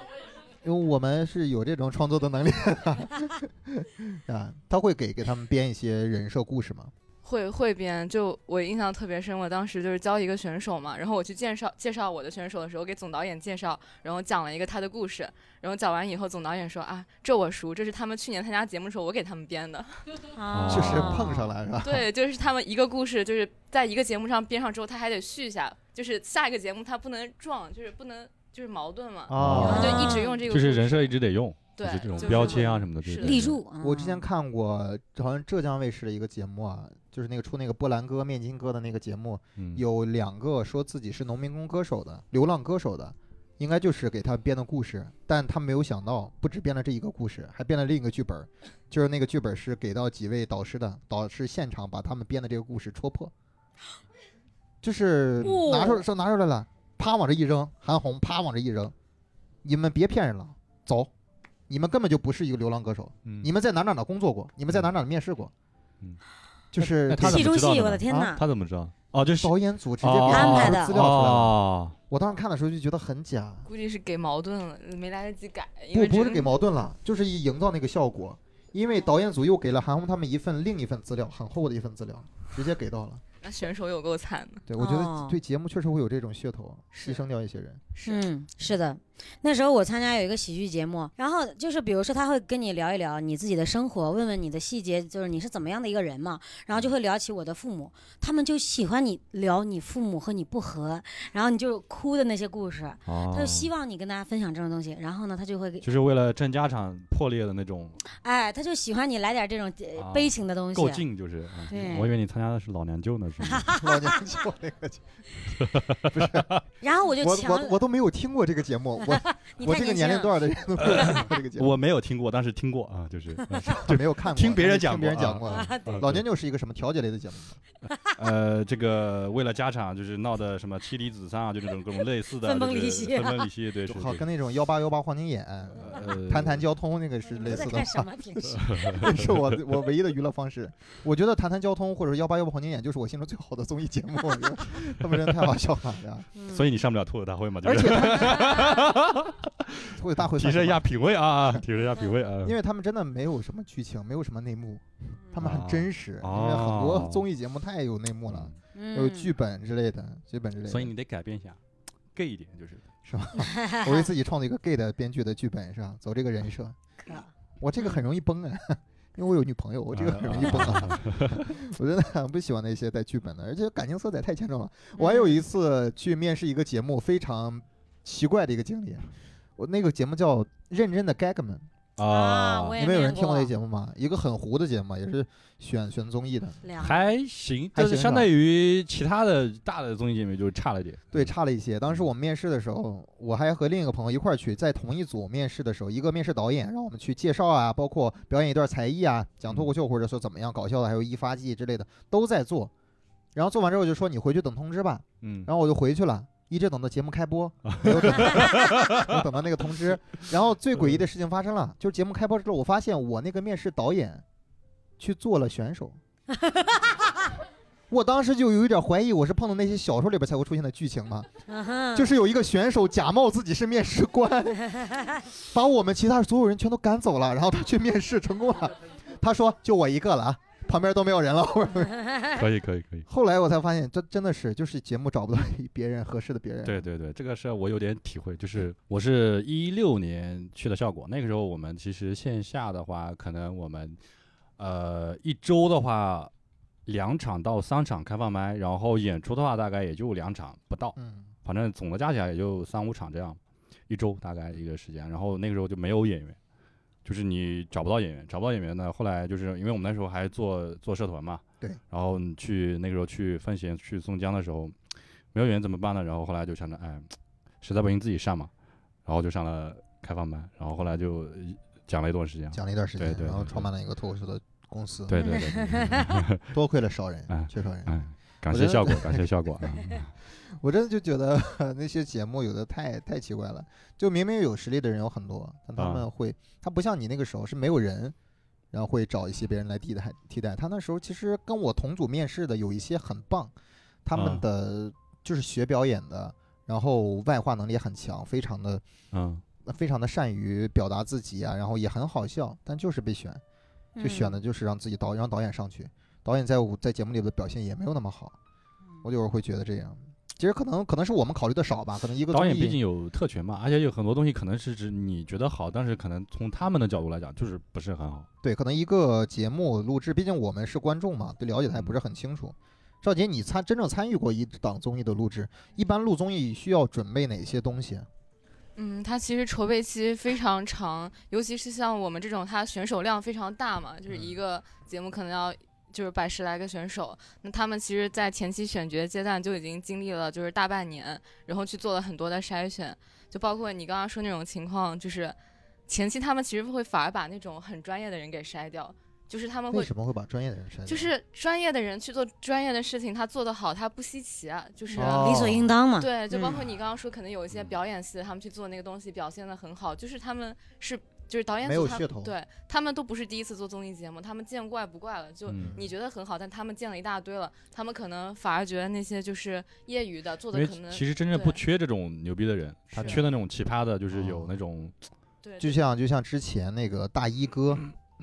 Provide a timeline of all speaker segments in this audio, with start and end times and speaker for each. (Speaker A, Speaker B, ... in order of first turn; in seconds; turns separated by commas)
Speaker A: 0.6-6.9, Speaker B: 7.2-20.0, Speaker C: 20.4-21.4, Speaker D: 20.5-21.3, Speaker A: 20.7-22.1, Speaker B: 21.8-31.1, Speaker A: 29.3-30.1, Speaker D: 29.4-33.6, Speaker C: 29.6-30.4, Speaker B: 31.8-33.5, Speaker C: 32.2-32.6, Speaker C: 33.2-34.2, Speaker A: 33.8-53.3, Speaker D: 39.6-39.8, Speaker A: 54.8-58.9, Speaker C: 55.4-56.0, Speaker A: 59.6-61.1, Speaker A: 61.7-65.5, Speaker D: 63.2-63.5, Speaker A: 66.7-67.5, Speaker D: 66.8-72.0, Speaker C: 67.2-68.4, Speaker A: 68.1-68.3, Speaker A: 69.4-71.6, Speaker C: 70.3-70.9, Speaker A: 72.1-73.7, Speaker B: 73.7-76.5, Speaker A: 75.9-83.2, Speaker B: 83.4-84.6, Speaker A: 84.7-87.8, Speaker C: 84.8-85.4, Speaker B: 88.0-88.2, Speaker C: 88.0-105.9, Speaker D: 103.1-103.7, Speaker D: 105.8-108.0, Speaker C: 108.2-111.0, Speaker D: 110.0-113.7, Speaker C: 111.7-112.1, Speaker C: 113.5-114.2, Speaker A: 113.8-115.0, Speaker D: 115.6-116.6, Speaker A: 116.1-116.5, Speaker C: 116.8-117.8, Speaker A: 117.2-121.7, Speaker C: 119.0-120.3, Speaker D: 120.9-126.2, Speaker A: 123.6-127.6, Speaker C: 125.5-126.0, Speaker D: 128.2-134.2, Speaker C: 132.4-133.5, Speaker A: 133.8-146.3, Speaker D: 135.8-136.6, Speaker C: 137.3-139.0, Speaker D: 138.7-139.4, Speaker C: 146.4-146.6, Speaker D: 146.5-152.6, Speaker A: 147.6-148.7, Speaker A: 149.9-150.9, Speaker A: 152.4-160.9, Speaker D: 155.4-157.2, Speaker D: 158.3-158.6, Speaker C: 158.8-159.3, Speaker D: 160.7-161.6, Speaker D: 162.1-162.9, Speaker A: 163.1-166.8, Speaker C: 163.5-164.1, Speaker C: 167.1-168.0, Speaker A: 167.6-181.7, Speaker D: 169.9-171.4, Speaker C: 175.0-175.4, Speaker D: 182.0-182.8, Speaker C: 182.1-183.5, Speaker A: 182.8-186.6, Speaker C: 186.6-187.0, Speaker D: 186.8-191.3, Speaker A: 187.8-188.3, Speaker A: 191.1-202.7, Speaker A: 203.3-214.2, Speaker D: 205.2-205.5, Speaker D: 207.7-209.1, Speaker A: 215.0-216.0, Speaker C: 216.4-216.9, Speaker A: 217.9-221.3, Speaker C: 221.5-222.1, Speaker A: 221.9-224.7, Speaker A: 225.3-232.1, Speaker D: 232.3-233.1, Speaker A: 233.1-236.9, Speaker D: 236.6-244.0, Speaker D: 244.6-246.3, Speaker D: 246.9-256.4, Speaker A: 251.0-251.3, Speaker D: 257.1-264.8, Speaker D: 265.3-267.1, Speaker D: 267.6-268.5, Speaker D: 269.1-273.7, Speaker A: 272.5-276.0, Speaker D: 275.1-276.4, Speaker C: 275.2-276.1, Speaker A: 276.5-277.9, Speaker D: 277.3-280.1, Speaker A: 278.5-279.3, Speaker A: 279.8-288.1, Speaker D: 285.8-286.1, Speaker A: 288.7-293.5, Speaker A: 294.1-298.8, Speaker D: 294.1-294.4, Speaker D: 299.1-299.4, Speaker A: 299.6-303.4, Speaker C: 304.0-304.4, Speaker A: 304.0-308.4, Speaker A: 309.0-312.8, Speaker D: 312.3-318.3, Speaker A: 318.4-328.1, Speaker B: 328.8-345.4, Speaker B: 345.9-349.9, Speaker A: 349.7-351.1, Speaker B: 350.9-371.6, Speaker C: 354.9-356.5, Speaker A: 355.0-355.7, Speaker A: 361.6-362.3, Speaker D: 365.5-365.8, Speaker A: 365.6-365.9, Speaker D: 370.5-374.9, Speaker A: 372.9-373.2, Speaker A: 374.1-374.5, Speaker B: 375.4-375.8, Speaker A: 375.6-377.9